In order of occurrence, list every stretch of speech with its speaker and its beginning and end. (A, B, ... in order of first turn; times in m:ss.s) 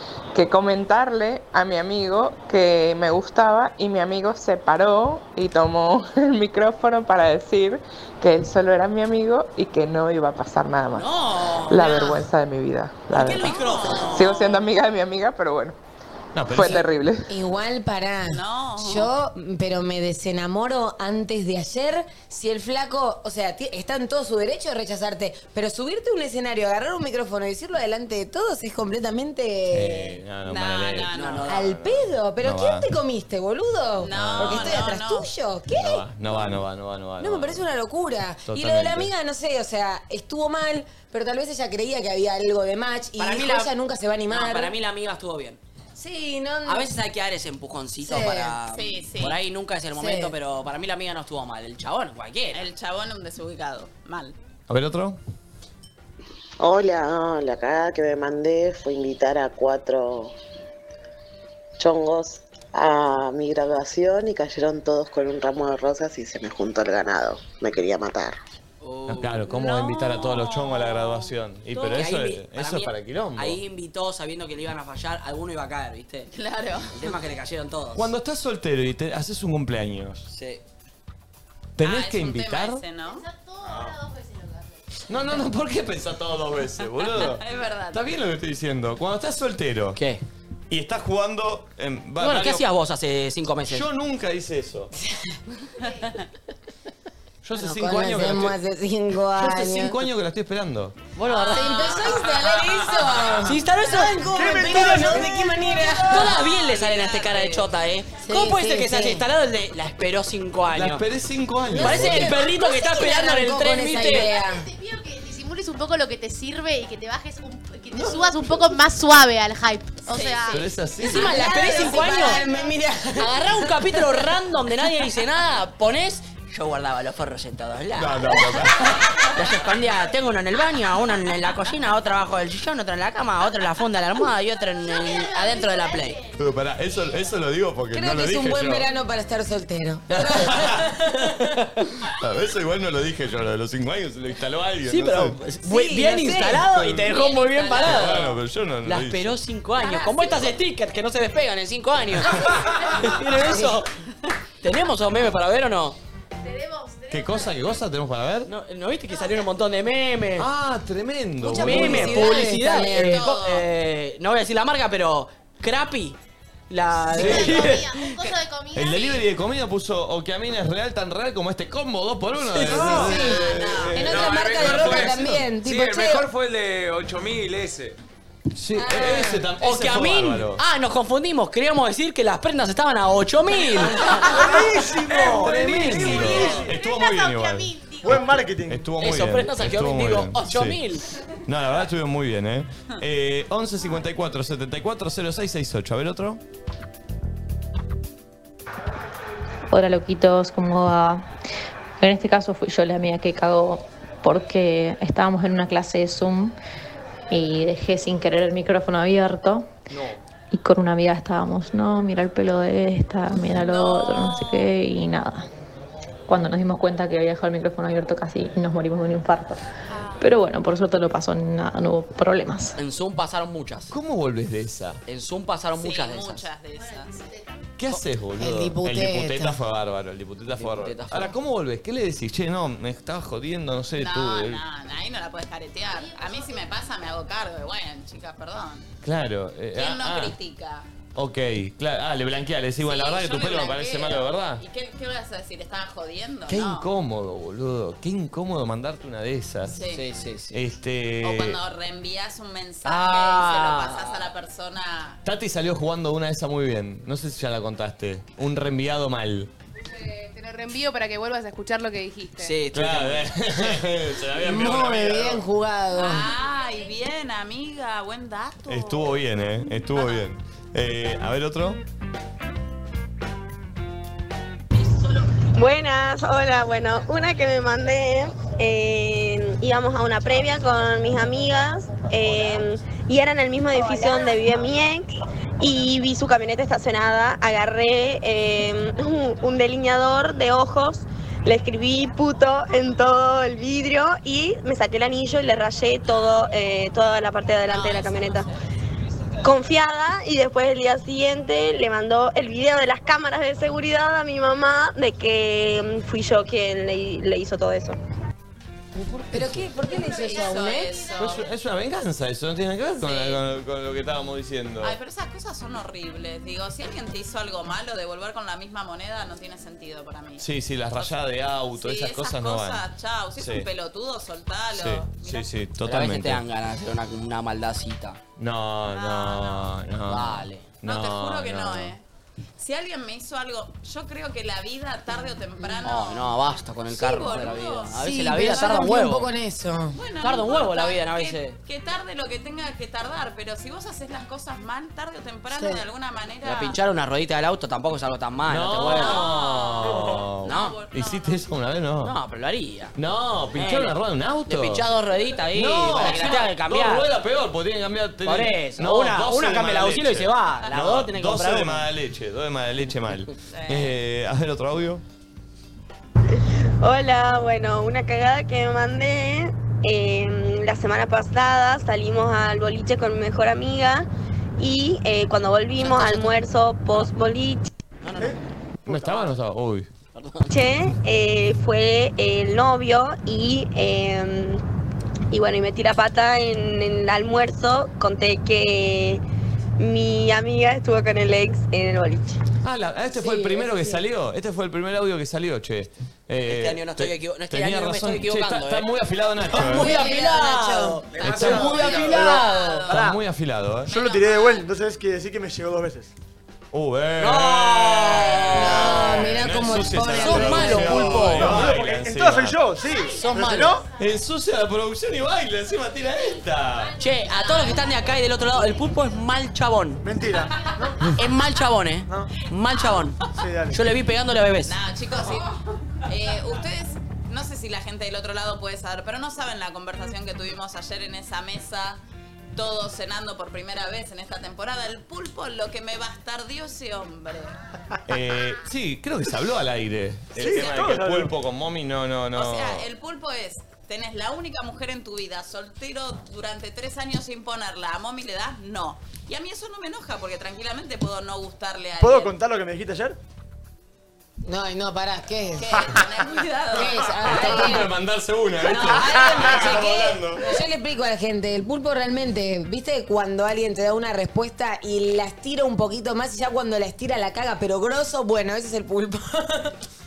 0:00.3-0:11.1 A
0:10.9-0:12.2 B
0:11.7-0:15.8 A
0:13.1-0:14.4 B
0:13.4-0:14.0 C
0:16.3-0:16.8 D
0:16.5-0:17.3 A
0:16.6-0:30.2 E
0:18.3-0:19.1 C
0:29.7-0:32.8 D
0:30.4-0:31.5 C
0:31.1-0:31.6 B
0:31.5-0:36.4 E
0:34.0-0:35.3 C
0:34.1-0:34.8 D
0:35.7-0:37.6 D
0:37.2-0:44.7 E
0:38.5-0:39.1 D
0:43.2-0:43.7 B
0:44.3-0:45.6 B
0:45.9-0:46.9 E
0:46.6-0:52.6 B
0:48.0-0:48.6 E
0:48.7-0:49.4 C
0:49.9-0:50.3 E
0:52.5-0:54.4 C
0:54.7-0:55.2 D
0:56.6-1:00.3 F
1:01.8-1:08.4 F
1:08.8-1:09.5 B
1:09.1-1:13.6 D
1:09.5-1:11.3 C
1:11.7-1:16.3 B
1:16.3-1:16.9 C
1:16.9-1:18.1 B
1:17.9-1:20.3 D
1:20.3-1:20.6 B
1:21.8-1:22.8 D
1:21.8-1:23.2 C
1:23.1-1:24.8 G
1:25.1-1:30.0 D
1:26.8-1:28.1 C
1:29.9-1:30.2 B
1:30.7-1:32.6 D
1:32.2-1:33.8 B
1:33.7-1:34.9 D
1:34.9-1:35.3 E
1:35.8-1:36.1 G
1:37.4-1:38.6 D
1:37.6-1:40.0 E
1:39.4-1:41.0 D
1:41.2-1:42.3 B
1:41.4-1:46.4 E
1:41.5-1:42.4 C
1:43.4-1:45.1 B
1:44.3-1:45.5 H
1:46.1-1:51.0 B
1:46.7-1:47.6 C
1:48.2-1:49.2 E
1:50.7-1:52.4 D
1:51.7-1:54.7 E
1:51.8-1:54.3 B
1:54.0-2:00.7 G
1:57.9-1:58.3 D
2:00.1-2:00.6 C
2:00.5-2:01.8 D
2:01.0-2:04.2 E
2:01.0-2:02.4 B
2:01.9-2:02.8 G
2:03.2-2:16.2 B
2:07.9-2:09.1 D
2:14.8-2:16.4 G
2:16.4-2:18.9 D
2:17.9-2:20.9 E
2:20.1-2:20.9 D
2:22.1-2:25.4 D
2:24.8-2:33.9 B
2:25.6-2:27.0 E
2:26.7-2:27.1 D
2:27.6-2:28.2 C
2:27.7-2:29.4 D
2:33.4-2:33.8 E
2:34.6-2:36.0 B
2:36.4-2:37.7 G
2:37.1-2:38.5 D
2:38.4-2:40.5 B
2:39.1-2:39.5 G
2:40.4-2:42.4 D
2:41.4-2:43.3 E
2:41.6-2:46.2 B
2:42.6-2:43.6 C
2:46.7-2:47.9 B
2:47.1-2:49.3 G
2:47.2-2:47.9 D
2:48.7-2:55.1 D
2:52.6-2:56.3 E
2:52.6-2:53.0 B
2:53.2-2:53.7 C
2:54.0-2:58.0 I
2:58.5-3:00.6 D
2:58.8-2:59.4 E
2:59.6-3:04.3 B
3:04.2-3:06.7 H
3:05.1-3:10.8 D
3:05.9-3:08.5 G
3:08.0-3:08.9 H
3:09.0-3:11.0 B
3:11.4-3:16.4 D
3:19.7-3:21.3 J
3:22.0-3:26.6 J
3:27.3-3:29.7 J
3:30.5-3:35.5 J
3:33.5-3:34.7 C
3:36.3-3:39.6 J
3:39.9-3:40.3 G
3:40.2-3:42.7 J
3:42.8-3:43.9 B
3:43.9-3:45.0 D
3:45.1-3:46.4 B
3:45.8-3:47.2 C
3:46.8-3:47.7 G
3:47.8-3:54.6 D
3:48.4-3:49.6 E
3:50.6-3:51.4 B
3:54.0-3:58.8 C
3:55.8-3:56.8 G
3:59.0-4:00.4 D
3:59.7-4:00.8 C
4:01.1-4:04.6 D
4:02.8-4:06.9 C
4:06.5-4:09.8 D
4:09.7-4:10.0 C
4:09.9-4:10.6 B
4:10.5-4:11.6 D
4:11.2-4:15.2 C
4:12.8-4:14.2 B
4:15.2-4:19.5 D
4:19.9-4:22.5 K
4:22.4-4:23.6 B
4:22.7-4:25.4 D
4:24.4-4:26.3 E
4:25.9-4:29.2 C
4:28.7-4:31.8 D
4:29.9-4:30.2 C
4:35.5-4:45.1 L
4:45.6-4:58.5 L
4:57.7-4:58.6 C
4:59.4-5:08.0 L
5:09.0-5:11.0 E
5:09.3-5:09.7 D
5:09.8-5:11.4 G
5:09.9-5:11.5 C
5:11.2-5:15.0 D
5:13.0-5:13.4 C
5:14.8-5:25.5 C
5:20.4-5:22.8 D
5:23.4-5:23.7 D
5:24.7-5:26.4 D
5:25.8-5:28.2 B
5:28.4-5:31.9 D
5:28.9-5:29.7 C
5:30.1-5:30.7 B
5:30.8-5:32.0 C
5:32.6-5:36.4 C
5:35.8-5:39.3 B
5:36.9-5:38.0 C
5:38.0-5:40.0 E
5:39.9-5:46.8 C
5:40.2-5:41.6 B
5:45.5-5:45.8 E
5:46.4-5:49.2 B
5:48.5-5:52.1 D
5:48.9-5:51.4 C
5:50.4-5:50.8 B
5:52.0-5:53.0 B
5:52.9-5:54.8 D
5:53.6-5:53.9 B
5:54.4-5:57.1 B
5:55.5-6:05.0 D
5:56.0-5:56.4 C
5:58.2-6:01.9 B
6:03.5-6:04.0 C
6:06.8-6:14.1 L
6:14.6-6:17.7 L
6:15.9-6:16.2 B
6:18.0-6:18.4 B
6:18.2-6:19.3 H
6:18.8-6:19.9 D
6:20.1-6:20.5 B
6:20.5-6:24.6 L
6:25.3-6:29.2 L
6:29.8-6:32.4 L
6:32.6-6:40.0 D
6:33.2-6:34.0 E
6:36.4-6:38.9 B
6:39.5-6:42.9 B
6:39.7-6:41.0 E
6:41.1-6:41.9 I
6:41.2-6:43.1 C
6:41.2-6:41.9 D
6:41.9-6:43.2 H
6:42.9-6:43.9 D
6:43.9-6:44.6 C
6:43.9-6:46.1 H
6:46.7-6:52.6 D
6:47.2-6:49.3 B
6:48.5-6:51.4 E
6:50.0-6:51.7 B
6:51.4-6:53.8 H
6:52.8-6:53.4 G
6:53.2-6:53.7 B
6:54.0-6:56.9 D
6:57.0-7:00.0 B
6:57.2-6:57.8 C
7:00.0-7:01.0 H
7:01.1-7:03.2 B
7:03.4-7:03.8 H
7:03.7-7:04.8 B
7:04.7-7:05.5 C
7:06.1-7:12.0 C
7:12.6-7:17.5 C
7:18.1-7:22.9 D
7:20.4-7:21.3 H
7:20.4-7:20.7 C
7:22.3-7:32.4 C
7:32.0-7:33.2 H
7:34.4-7:36.0 E
7:35.6-7:37.8 C
7:36.7-7:37.9 E
7:37.2-7:40.4 D
7:38.6-7:49.7 E